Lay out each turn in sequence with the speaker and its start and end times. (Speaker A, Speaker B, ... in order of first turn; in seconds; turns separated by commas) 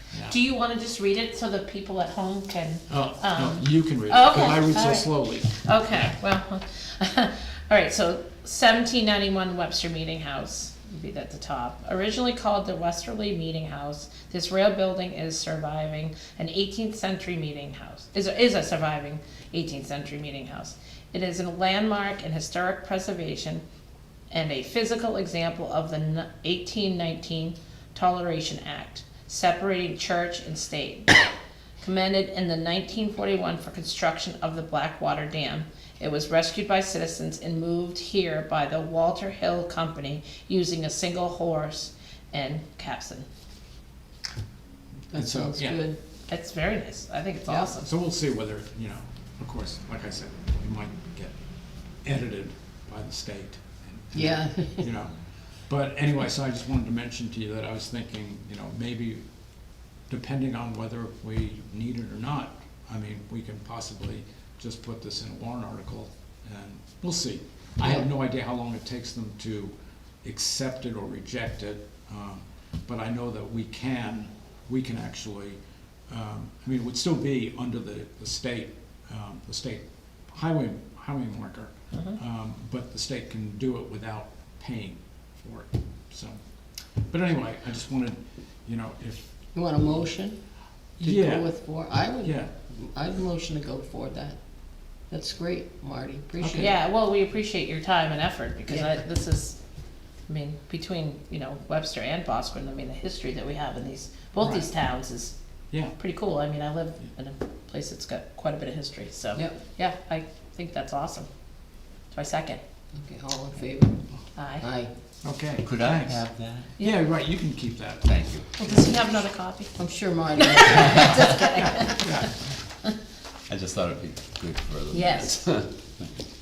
Speaker A: 0.1-0.4, Speaker B: 0.3-23.6, Speaker A: 2.9-6.1, Speaker B: 24.3-31.3, Speaker B: 31.8-43.3, Speaker C: 45.1-46.0, Speaker A: 45.1-45.8, Speaker B: 46.3-47.9, Speaker A: 47.7-51.4, Speaker A: 52.0-59.2, Speaker C: 54.1-54.9, Speaker A: 60.1-86.4, Speaker A: 87.1-89.4, Speaker C: 89.5-90.4, Speaker A: 91.0-91.5, Speaker C: 91.0-94.4, Speaker A: 92.2-92.5, Speaker C: 95.1-96.7, Speaker A: 96.4-96.7, Speaker B: 96.6-99.6, Speaker B: 100.3-105.3, Speaker A: 104.4-104.7, Speaker A: 105.7-106.0, Speaker B: 106.0-111.3, Speaker B: 112.1-112.6, Speaker C: 113.0-114.0, Speaker B: 114.4-114.7, Speaker C: 114.6-114.9, Speaker A: 115.2-116.2, Speaker D: 115.6-116.7, Speaker A: 116.8-118.1, Speaker D: 118.0-118.5, Speaker B: 118.6-119.7, Speaker C: 119.8-121.7, Speaker B: 120.4-122.2, Speaker A: 121.7-122.4, Speaker D: 123.5-126.1, Speaker B: 124.9-125.4